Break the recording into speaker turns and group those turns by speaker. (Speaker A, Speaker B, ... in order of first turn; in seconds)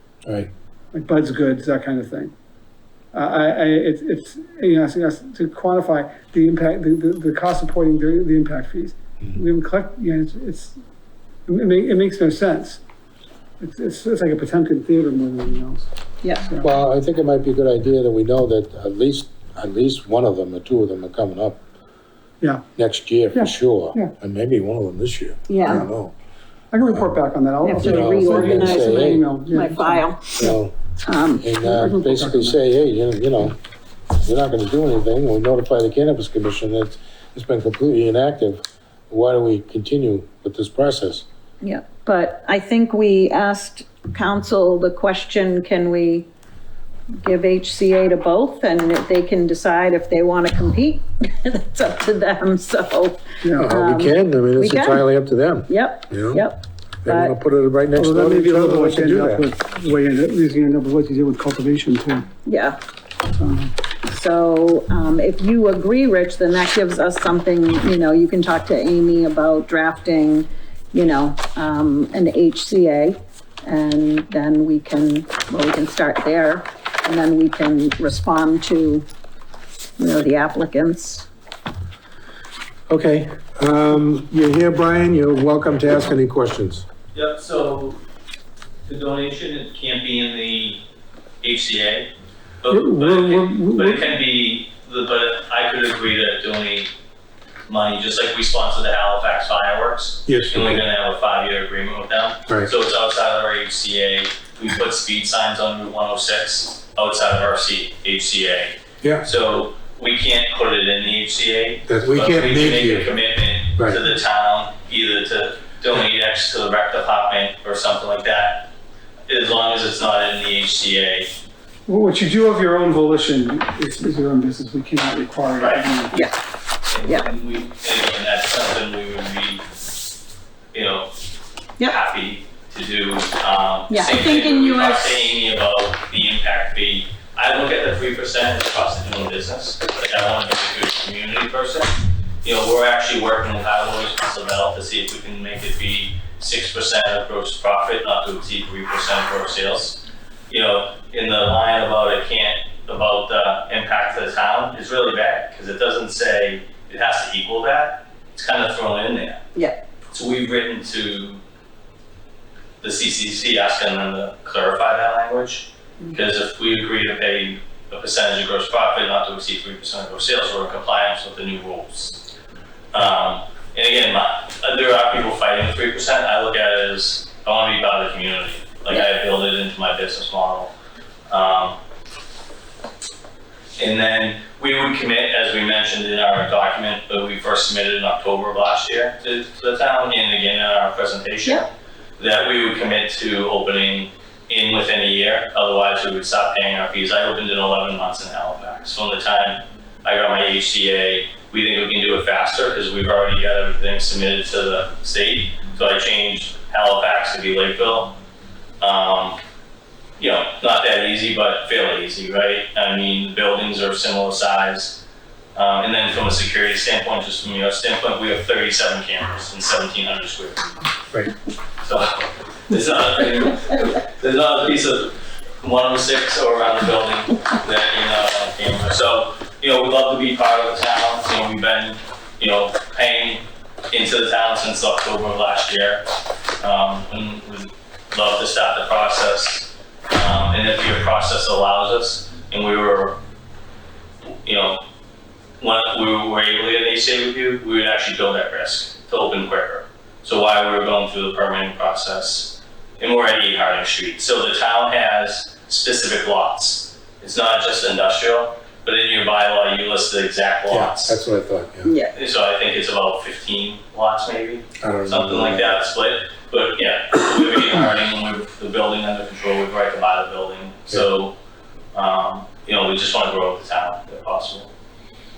Speaker A: 0.9-2.3, 3.1-10.8, 11.5-12.8, 13.6-15.9, 16.4-16.7, 22.4-22.6, 23.3-24.1, 26.7-30.5, 31.7-32.5, 53.4-53.7, 58.0-62.3, 63.4-63.7, 92.7-94.1, 121.9-126.3
Speaker B: 16.2-16.5, 25.5-25.8, 27.6-30.4, 31.0-31.5, 41.6-46.3, 47.2-55.0, 55.7-57.3, 62.5-62.8, 64.1-79.0, 80.0-81.3, 133.9-135.2, 261.8-262.1
Speaker C: 16.6-21.6, 22.8-26.1, 27.7-29.3, 30.4-30.7, 31.4-33.6, 34.2-41.2, 53.6-56.5, 57.0-59.5, 82.9-86.8, 100.3-100.8, 111.9-113.2, 113.7-114.0, 260.7-261.9, 264.8-265.8
Speaker D: 87.1-88.0, 88.8-90.8, 91.4-92.1, 92.6-96.9, 97.7-118.7, 119.3-121.3, 125.6-125.8, 126.9-129.6, 130.7-131.1, 131.8-141.9, 142.4-159.4, 160.1-161.4, 162.8-172.2, 172.9-180.7, 181.3-181.8, 183.8-208.2, 208.8-209.4, 210.2-215.0, 215.5-220.7, 221.8-236.0, 236.6-243.2, 244.4-244.8, 245.6-261.2, 262.1-271.3, 271.9-274.7